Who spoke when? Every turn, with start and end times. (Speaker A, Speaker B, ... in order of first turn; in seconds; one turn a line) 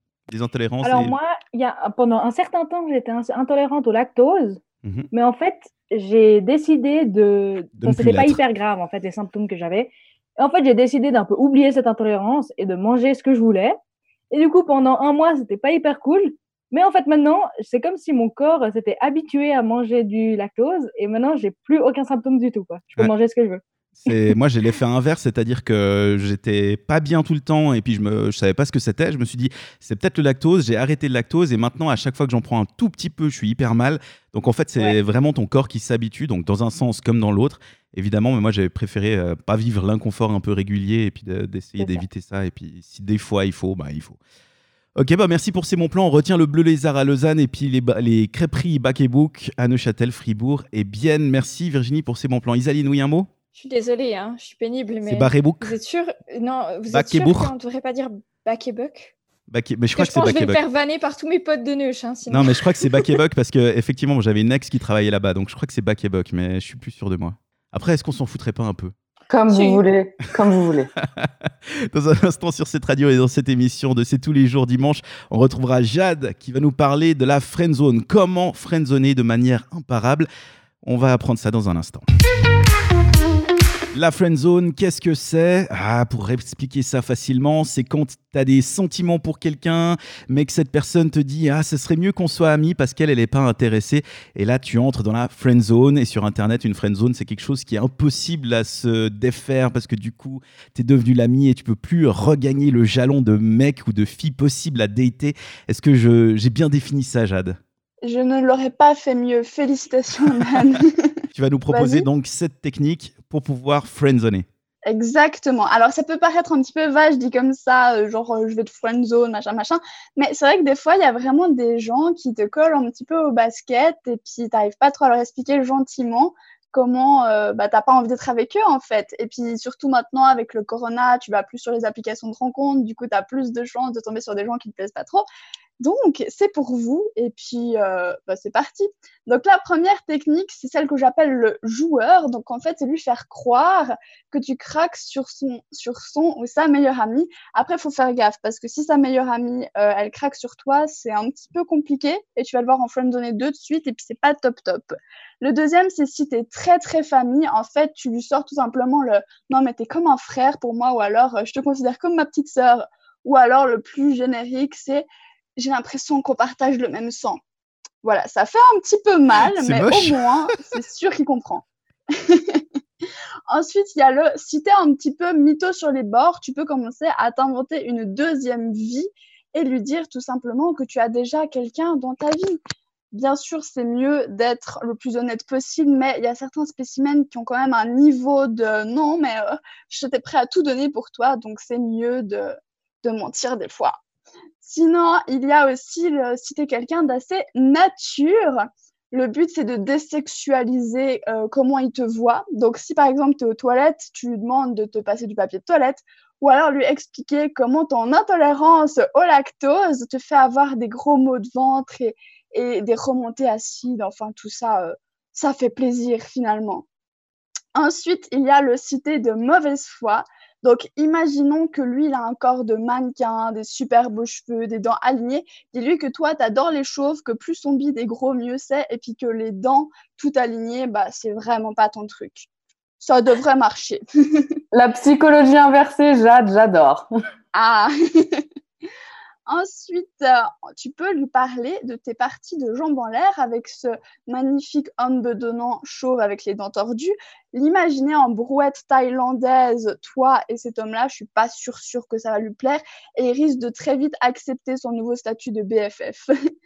Speaker A: 0.3-1.1
Speaker B: 0.8-4.6
Speaker A: 4.8-5.1
Speaker B: 5.1-13.8
Speaker A: 7.8-8.4
Speaker B: 14.3-24.3
Speaker A: 24.0-44.2
Speaker A: 45.0-53.3
Speaker C: 53.5-59.1
Speaker A: 55.0-55.7
Speaker A: 56.9-57.5
Speaker A: 59.5-60.6
Speaker C: 60.0-62.6
Speaker A: 62.3-68.9
Speaker D: 69.3-70.9
Speaker C: 69.5-69.8
Speaker A: 71.9-80.3
Speaker A: 80.8-82.0
Speaker A: 83.9-107.6
Speaker E: 108.0-111.2
Speaker A: 111.3-114.5
Speaker E: 111.7-112.1
Speaker E: 114.8-135.2
Speaker E: 135.8-167.4
Speaker E: 168.0-172.6
Speaker A: 169.5-170.2
Speaker E: 173.5-182.6
Speaker E: 183.1-194.0
Speaker E: 194.6-216.8
Speaker E: 217.7-232.5
Speaker E: 233.0-234.6
Speaker D: 234.7-237.1
Speaker E: 237.5-238.4
Speaker E: 239.4-256.3